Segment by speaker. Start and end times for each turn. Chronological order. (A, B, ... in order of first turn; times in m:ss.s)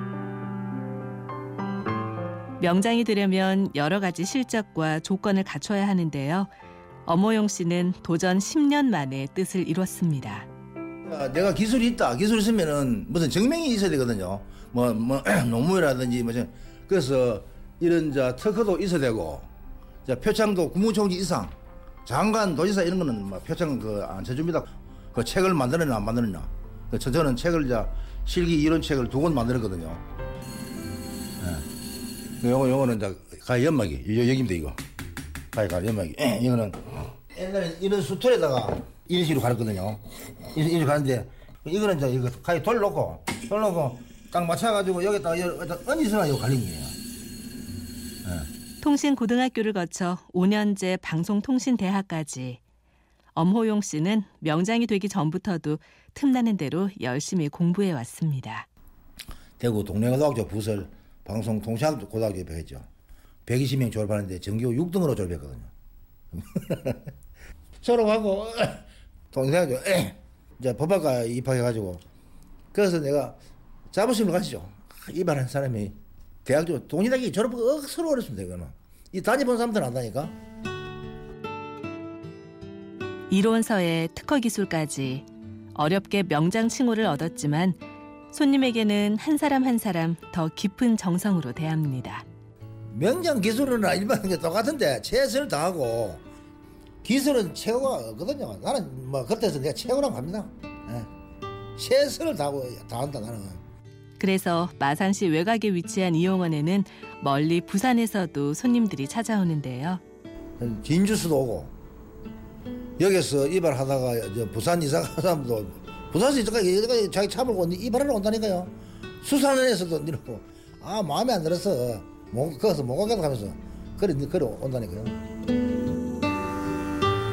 0:02.6-0:06.5 A
0:07.0-0:10.5 A
0:11.0-0:19.5 B
0:20.0-0:30.0 B
0:31.4-0:31.7 B
0:32.4-0:34.8 B
0:35.5-0:47.0 B
0:48.8-0:52.6 A
0:53.3-0:58.6 A
0:59.6-1:02.9 B
1:03.4-1:05.7 B
1:06.3-1:07.1 B
1:07.8-1:12.0 B
1:12.7-1:13.4 B
1:13.9-1:20.3 B
1:23.3-1:32.2 A
1:32.9-1:36.2 B
1:37.0-1:41.1 B
1:41.8-1:43.6 B
1:44.2-1:50.0 A
1:50.6-1:51.7 B
1:53.0-2:05.2 B